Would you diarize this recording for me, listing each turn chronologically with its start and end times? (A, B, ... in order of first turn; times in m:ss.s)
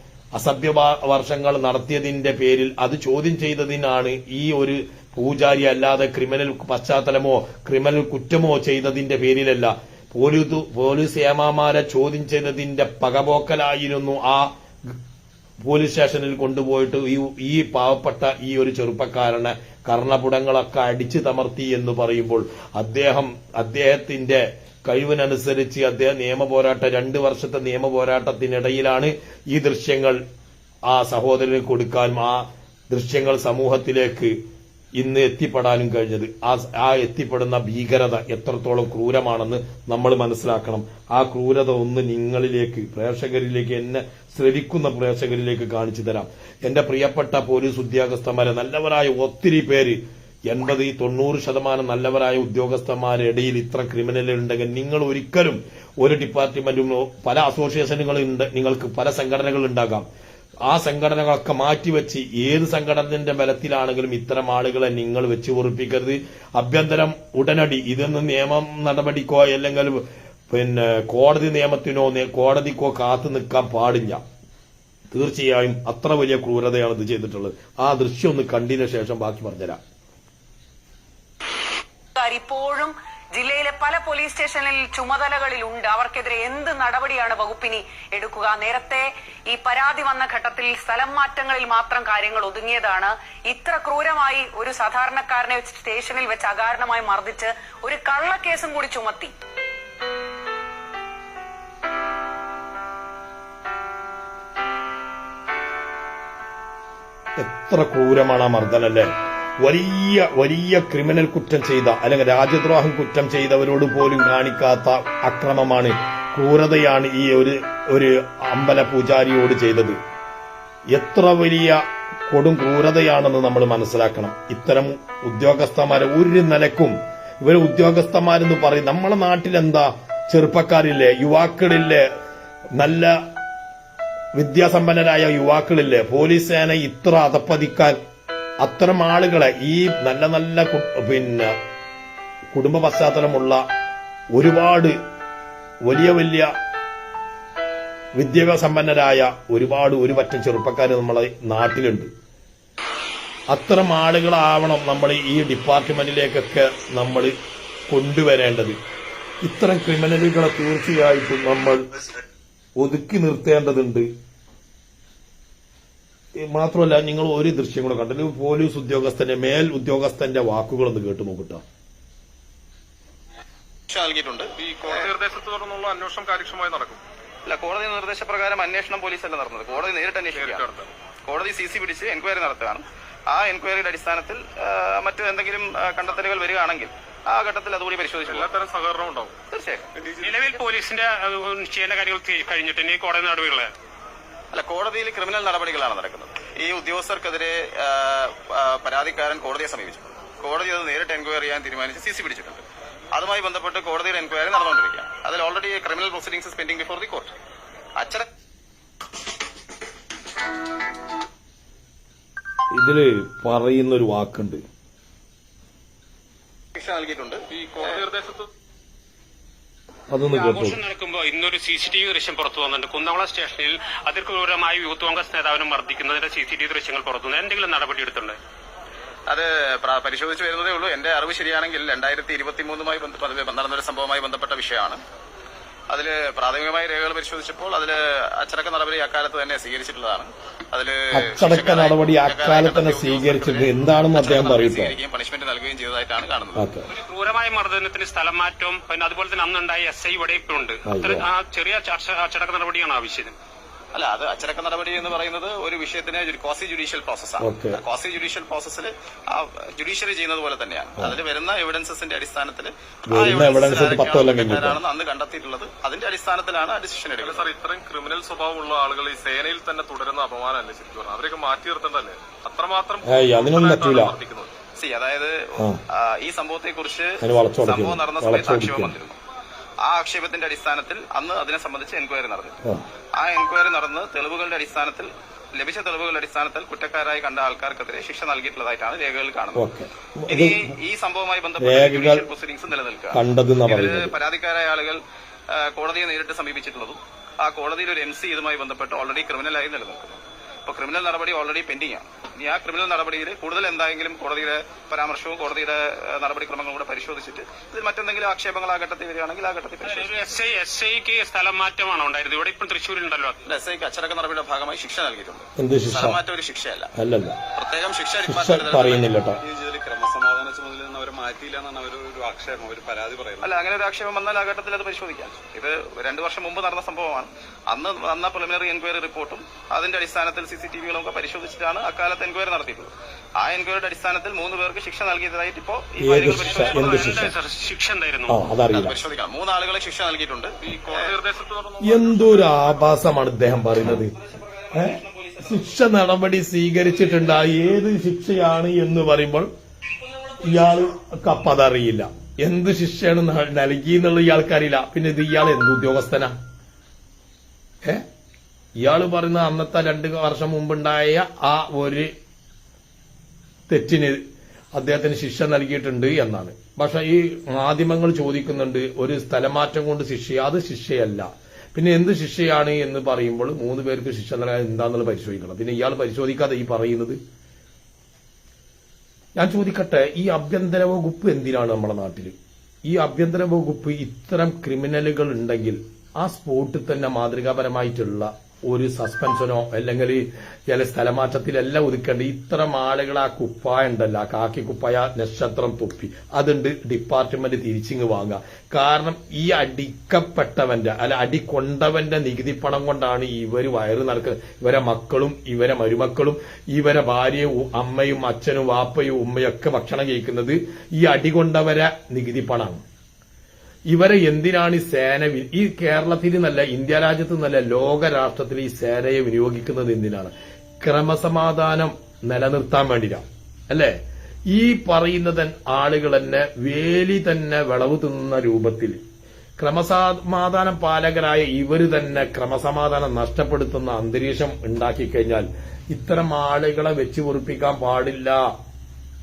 0:00.4-0:14.5 A
0:15.6-0:30.2 A
0:30.9-0:34.4 A
0:35.0-1:00.1 A
1:00.7-1:14.2 A
1:15.1-1:19.8 A
1:22.2-1:39.3 B
1:47.4-2:00.0 A
2:00.9-2:12.1 A
2:12.8-2:13.2 A
2:14.4-2:18.0 A
2:18.6-2:21.6 A
2:22.5-2:23.6 A
2:24.4-2:25.0 A
2:25.9-2:26.5 A
2:28.2-2:32.1 A
2:33.5-2:37.3 A
2:37.9-2:38.8 A
2:39.4-2:42.0 A
2:42.8-2:44.1 A
2:46.4-2:51.6 A
2:53.9-2:55.1 C
2:54.6-2:57.0 D
2:57.5-3:08.5 C
3:00.4-3:00.8 D
3:08.3-3:09.3 D
3:09.5-3:09.9 C
3:10.2-3:13.7 E
3:14.5-3:22.6 C
3:23.2-3:27.3 C
3:28.0-3:28.2 C
3:32.7-3:34.6 A
3:36.8-3:38.1 C
3:37.6-3:38.5 D
3:40.1-3:40.8 A
3:40.3-3:48.4 E
3:49.3-3:55.0 C
3:55.9-4:06.7 C
4:01.1-4:05.0 A
4:06.6-4:06.9 A
4:06.9-4:13.4 E
4:10.8-4:11.2 A
4:14.0-4:27.5 C
4:17.4-4:17.8 A
4:23.1-4:24.8 A
4:27.2-4:34.5 D
4:33.0-4:34.2 A
4:34.8-4:39.2 C
4:37.2-4:39.0 A
4:39.8-4:42.6 C
4:43.2-4:49.6 C
4:49.6-4:50.6 A
4:50.3-5:10.1 C
4:51.6-4:52.2 A
4:53.1-4:54.1 A
5:09.8-5:13.4 E
5:13.4-5:16.9 C
5:15.6-5:16.2 A
5:17.0-5:17.4 A
5:17.6-5:19.1 C
5:18.3-5:19.4 A
5:19.5-5:23.4 F
5:23.4-5:37.0 C
5:36.0-5:37.3 A
5:36.4-5:38.3 E
5:38.3-5:39.0 A
5:38.7-5:41.2 C
5:40.7-5:42.7 D
5:41.8-5:44.1 A
5:44.2-5:45.7 C
5:44.7-5:49.5 A
5:50.4-5:56.3 A
5:58.8-6:02.1 A
6:03.7-6:04.2 A
6:04.8-6:17.2 A
6:19.4-6:52.8 A
6:53.9-7:04.0 A
7:04.5-7:09.0 A
7:09.6-7:18.5 A